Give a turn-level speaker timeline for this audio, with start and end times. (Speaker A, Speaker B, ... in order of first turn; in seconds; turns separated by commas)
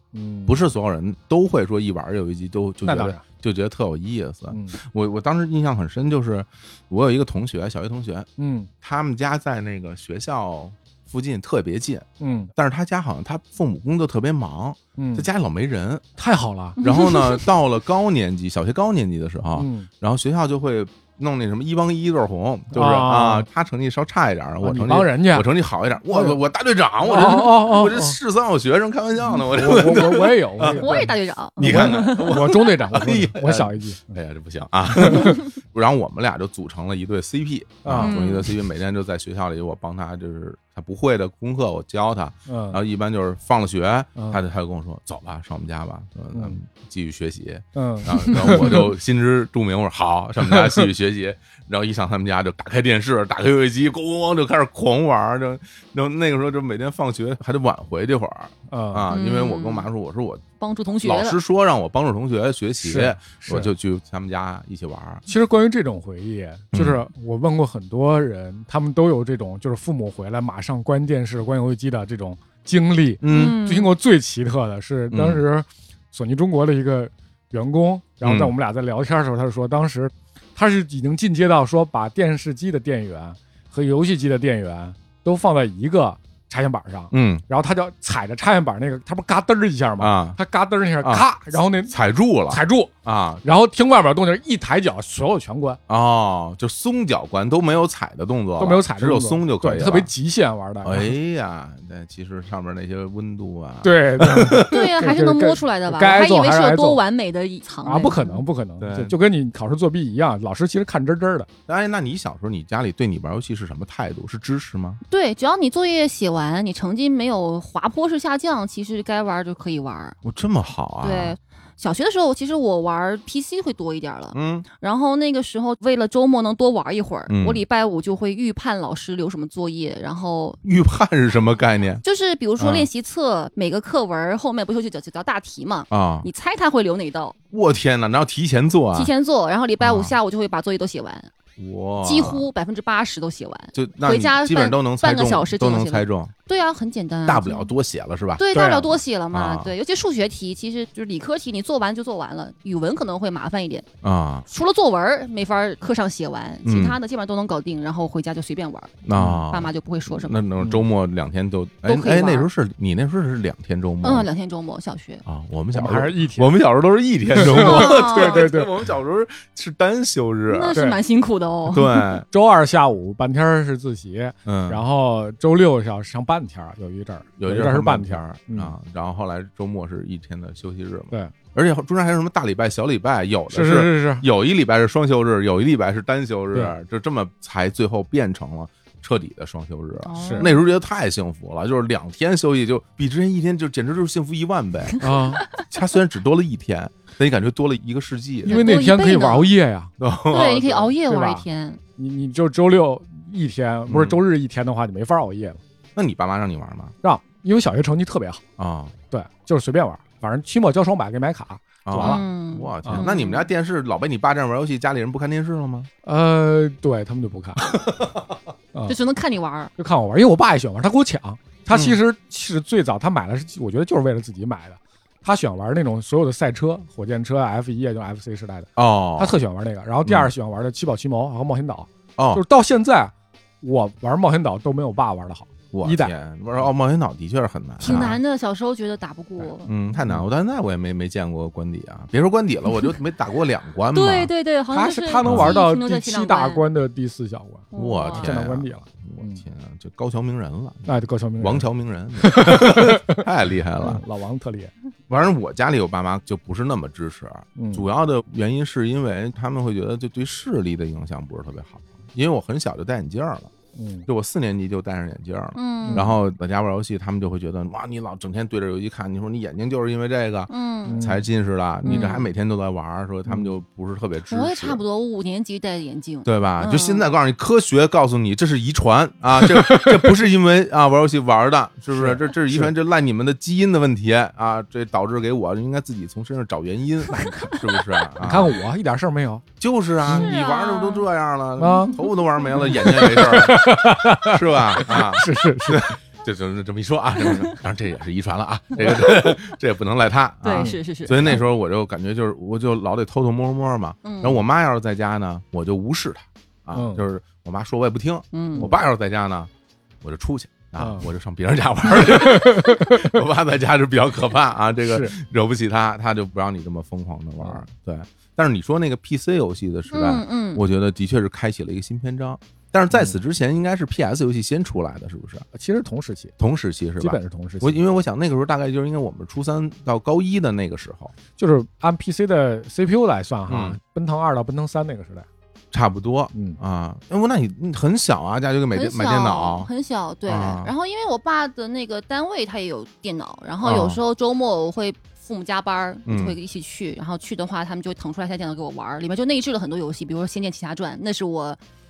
Speaker A: 0.1-0.6, Speaker B: 0.5-8.3, Speaker A: 2.8-3.2, Speaker A: 4.5-4.8, Speaker A: 8.4-8.7, Speaker B: 8.8-16.1, Speaker A: 12.2-12.5, Speaker A: 15.0-15.3, Speaker A: 16.2-16.8, Speaker B: 16.8-60.4, Speaker C: 16.8-17.5, Speaker A: 19.6-19.9, Speaker A: 22.7-23.5, Speaker A: 24.6-25.5, Speaker A: 26.1-26.4, Speaker A: 27.0-28.2, Speaker A: 29.3-34.1, Speaker C: 30.6-32.4, Speaker A: 34.9-35.4, Speaker A: 37.8-38.2, Speaker C: 38.0-38.6, Speaker A: 42.5-42.8, Speaker A: 44.2-44.4, Speaker A: 47.8-48.9, Speaker A: 50.5-50.8, Speaker A: 58.7-59.1, Speaker C: 59.1-59.9, Speaker C: 60.6-61.4, Speaker B: 61.0-65.2, Speaker A: 62.8-63.7, Speaker A: 65.3-92.0, Speaker B: 66.7-67.0, Speaker B: 73.2-73.6, Speaker C: 73.3-73.9, Speaker B: 75.1-75.4, Speaker B: 78.2-78.5, Speaker B: 87.1-87.4, Speaker B: 90.0-90.4, Speaker B: 91.0-93.4, Speaker A: 92.5-92.9, Speaker A: 93.4-95.8, Speaker B: 95.9-100.1, Speaker A: 98.6-101.1, Speaker B: 100.8-104.8, Speaker A: 103.8-107.0, Speaker C: 104.7-108.4, Speaker A: 107.8-111.5, Speaker B: 108.8-109.2, Speaker B: 111.7-115.0, Speaker C: 115.1-120.2, Speaker B: 120.2-121.4, Speaker C: 121.0-130.6, Speaker B: 124.3-124.7, Speaker B: 127.3-127.6, Speaker B: 130.6-132.0, Speaker C: 132.0-137.4, Speaker B: 132.6-132.9, Speaker B: 135.9-136.3, Speaker B: 137.5-139.1, Speaker C: 138.9-141.3, Speaker B: 139.8-140.2, Speaker B: 141.6-142.5, Speaker C: 142.0-147.7, Speaker B: 143.8-146.3, Speaker B: 147.3-148.5, Speaker C: 148.4-153.9, Speaker A: 148.5-148.9, Speaker B: 149.3-149.7, Speaker B: 154.0-154.5, Speaker C: 154.5-160.4, Speaker B: 156.7-157.0, Speaker B: 159.1-164.3, Speaker C: 161.8-162.5, Speaker C: 164.0-165.2, Speaker B: 165.2-170.8, Speaker A: 165.7-166.6, Speaker A: 167.3-168.7, Speaker C: 167.4-168.5, Speaker C: 170.5-172.1, Speaker A: 170.7-171.0, Speaker B: 171.7-172.3, Speaker A: 172.3-178.8, Speaker B: 174.5-174.8, Speaker B: 177.4-198.7, Speaker A: 183.5-184.2, Speaker C: 190.1-190.7, Speaker A: 190.2-190.5, Speaker A: 195.0-195.4, Speaker C: 198.5-199.5, Speaker A: 198.5-199.9, Speaker B: 200.0-200.9, Speaker C: 200.3-201.8, Speaker A: 200.9-201.4, Speaker A: 202.0-205.6, Speaker B: 203.9-204.2, Speaker B: 205.9-206.9, Speaker A: 207.0-208.4, Speaker B: 208.6-208.9, Speaker A: 209.1-212.2, Speaker B: 211.8-215.9, Speaker C: 212.0-213.5, Speaker A: 216.0-217.6, Speaker B: 217.6-218.3, Speaker C: 218.9-219.7, Speaker A: 219.8-236.1, Speaker B: 221.7-222.0, Speaker B: 228.8-229.4, Speaker B: 230.1-230.3, Speaker B: 232.2-232.4, Speaker B: 235.7-238.2, Speaker C: 237.8-239.7, Speaker B: 239.6-244.3, Speaker C: 243.9-246.6, Speaker A: 244.7-249.4, Speaker B: 245.2-245.6, Speaker C: 247.7-248.4, Speaker B: 247.8-254.0, Speaker A: 250.9-253.2, Speaker A: 253.8-254.7, Speaker B: 255.1-263.5, Speaker A: 257.6-257.9, Speaker A: 263.8-264.1, Speaker B: 264.1-274.8, Speaker C: 265.6-266.1, Speaker A: 265.9-266.2, Speaker C: 270.5-271.0, Speaker A: 270.9-271.2, Speaker A: 271.8-272.1, Speaker C: 271.9-272.3, Speaker A: 273.3-273.5, Speaker C: 274.3-277.1, Speaker B: 276.2-288.6, Speaker A: 279.4-280.1, Speaker A: 281.9-282.7, Speaker A: 287.1-287.6, Speaker A: 288.2-289.4, Speaker B: 289.6-309.5, Speaker A: 290.1-290.3, Speaker C: 290.1-291.1, Speaker A: 291.6-292.0, Speaker C: 291.6-292.0, Speaker A: 292.6-295.9, Speaker C: 300.4-301.4, Speaker A: 300.5-300.8, Speaker C: 304.0-304.4, Speaker A: 306.7-307.0, Speaker C: 308.3-308.7, Speaker B: 310.0-325.4, Speaker A: 310.8-311.1, Speaker A: 311.9-313.1, Speaker A: 314.9-315.1, Speaker C: 319.9-320.6, Speaker A: 325.5-326.3, Speaker B: 326.4-331.1, Speaker A: 327.0-327.8, Speaker A: 331.4-335.3, Speaker B: 333.5-333.8, Speaker B: 335.7-339.7, Speaker A: 336.3-336.6, Speaker C: 338.7-351.6, Speaker B: 340.3-340.7, Speaker B: 343.6-344.0, Speaker B: 346.1-346.4